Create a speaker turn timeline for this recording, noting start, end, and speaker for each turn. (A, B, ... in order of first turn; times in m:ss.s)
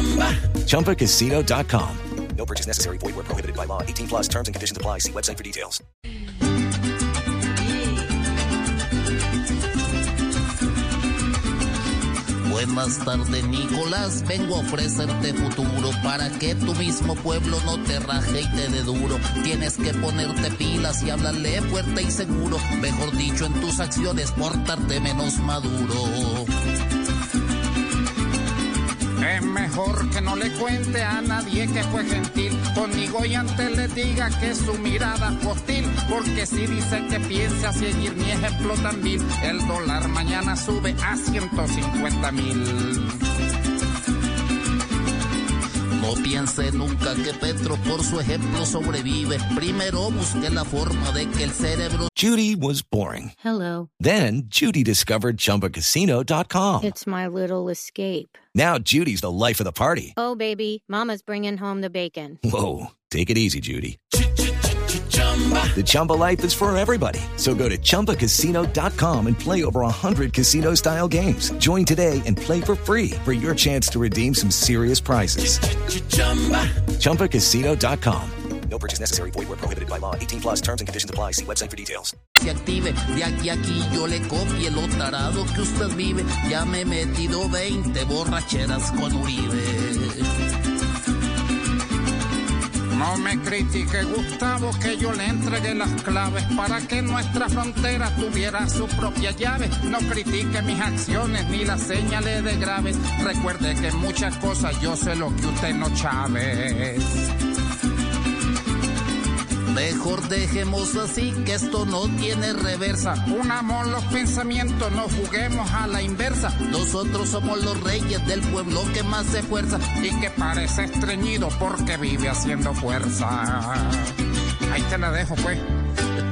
0:00.6-0:05.8 A
0:12.5-0:26.5 B
0:29.2-0:43.3 C
0:46.0-0:52.1 B
0:52.2-0:53.4 A
0:53.4-0:53.9 D
0:54.0-0:56.9 A
0:56.8-0:58.4 D
0:58.6-1:00.2 A
1:00.2-1:02.4 D
1:02.4-1:04.0 A
1:05.7-1:15.6 A
1:16.3-1:16.6 B
1:17.0-1:22.1 A
1:22.4-1:30.3 B
1:32.9-1:47.3 C
1:49.7-1:53.2 B
1:53.2-1:56.6 C
1:56.7-2:00.0 B
2:00.0-2:05.7 C